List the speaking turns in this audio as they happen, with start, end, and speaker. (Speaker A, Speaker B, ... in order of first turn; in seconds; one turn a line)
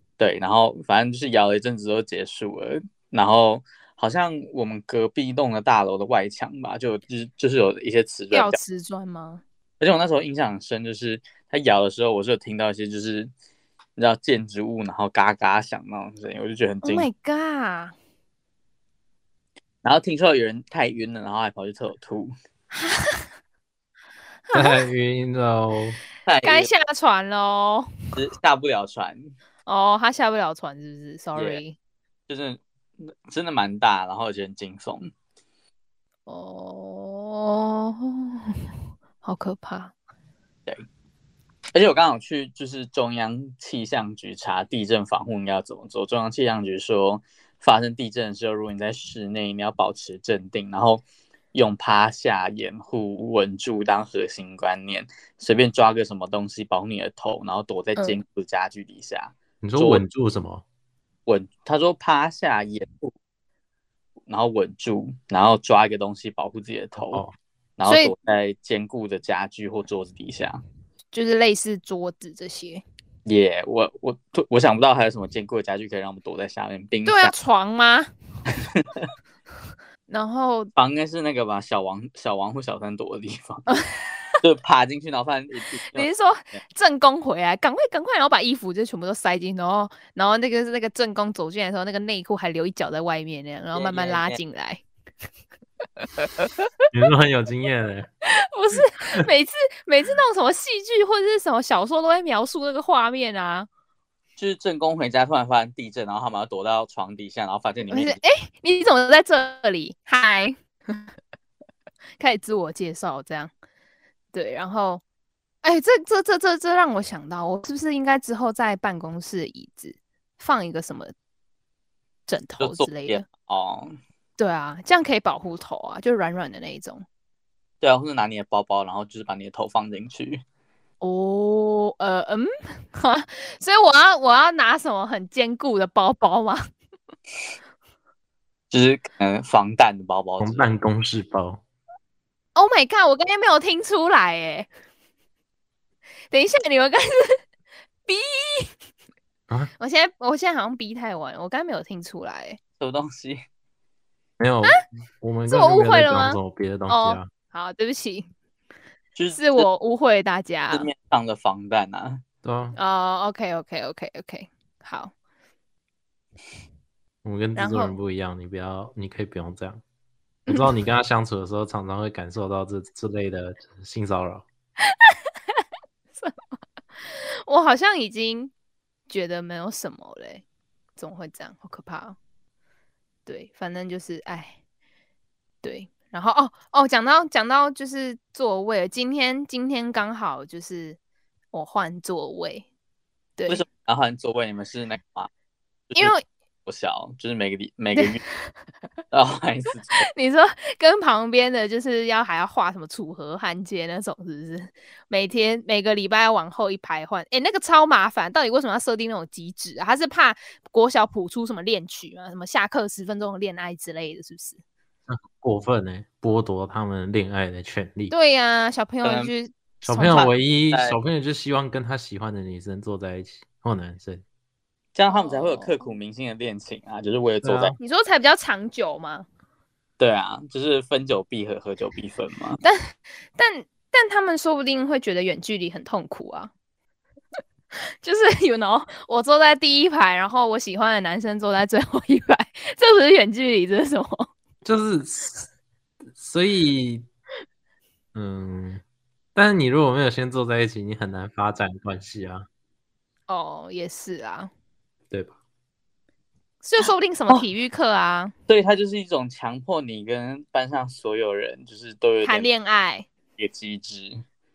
Speaker A: 0.2-8.6
Speaker B: 8.3-9.4
Speaker A: 9.8-13.3
Speaker A: 14.0-17.1
Speaker B: 16.8-17.9
Speaker A: 19.8-22.3
Speaker B: 22.7-23.2
Speaker B: 24.5-24.9
Speaker C: 24.5-26.0
Speaker A: 26.2-26.7
Speaker B: 26.4-28.1
Speaker A: 28.1-29.3
Speaker B: 29.7-31.8
Speaker A: 31.4-31.6
Speaker A: 32.3-35.1
Speaker B: 36.3-38.6
Speaker B: 39.2-39.9
Speaker A: 41.7-60.0
Speaker C: 59.6-60.6
Speaker A: 61.3-63.1
Speaker A: 64.3-67.2
Speaker C: 67.0-67.3
Speaker A: 67.8-70.6
Speaker B: 67.9-68.1
Speaker B: 71.1-72.8
Speaker A: 73.3-77.3
Speaker B: 77.0-78.1
Speaker A: 78.8-79.1
Speaker B: 80.1-80.7
Speaker A: 80.8-83.7
Speaker B: 83.7-84.1
Speaker A: 84.4-86.6
Speaker B: 85.9-94.8
Speaker A: 93.8-94.4
Speaker C: 96.9-98.1
Speaker B: 98.3-103.7
Speaker A: 104.4-108.2
Speaker B: 107.9-111.0
Speaker B: 112.2-113.5
Speaker B: 114.3-115.0
Speaker B: 115.6-121.1
Speaker B: 122.3-123.2
Speaker A: 122.6-124.0
Speaker B: 124.4-127.0
Speaker A: 127.8-130.4
Speaker B: 131.0-136.7
Speaker A: 138.7-140.6
Speaker C: 140.4-141.6
Speaker B: 142.6-144.7
Speaker B: 146.3-147.4
Speaker B: 148.1-148.7
Speaker B: 149.8-152.6
Speaker A: 152.8-153.4
Speaker C: 154.4-157.3
Speaker B: 155.5-158.3
Speaker A: 159.2-159.7
Speaker B: 159.4-160.9
Speaker A: 160.7-162.2
Speaker C: 162.4-162.8
Speaker B: 162.8-165.1
Speaker C: 167.2-169.8
Speaker B: 167.6-167.9
Speaker C: 170.5-174.4
Speaker B: 177.5-178.5
Speaker B: 179.1-180.4
Speaker B: 181.0-182.2
Speaker B: 183.3-184.6
Speaker B: 185.6-191.0
Speaker B: 191.5-192.7
Speaker B: 193.4-193.7
Speaker A: 193.5-195.3
Speaker A: 195.9-196.2
Speaker B: 195.9-196.2
Speaker A: 196.7-198.2
Speaker B: 197.9-198.5
Speaker A: 199.1-200.1
Speaker B: 200.0-214.6
Speaker C: 215.1-218.1
Speaker B: 218.1-220.3
Speaker A: 219.0-219.3
Speaker C: 219.8-224.2
Speaker A: 220.7-221.0
Speaker A: 224.9-227.8
Speaker B: 225.1-225.8
Speaker C: 227.4-227.8
Speaker B: 227.8-229.3
Speaker A: 230.0-232.6
Speaker B: 232.6-236.5
Speaker B: 238.0-244.3
Speaker C: 244.6-245.5
Speaker C: 246.2-247.1
Speaker C: 248.2-248.8
Speaker C: 249.3-252.5
Speaker B: 253.3-254.5
Speaker B: 256.6-258.3
Speaker A: 258.5-262.5
Speaker B: 262.2-263.1
Speaker A: 263.4-264.2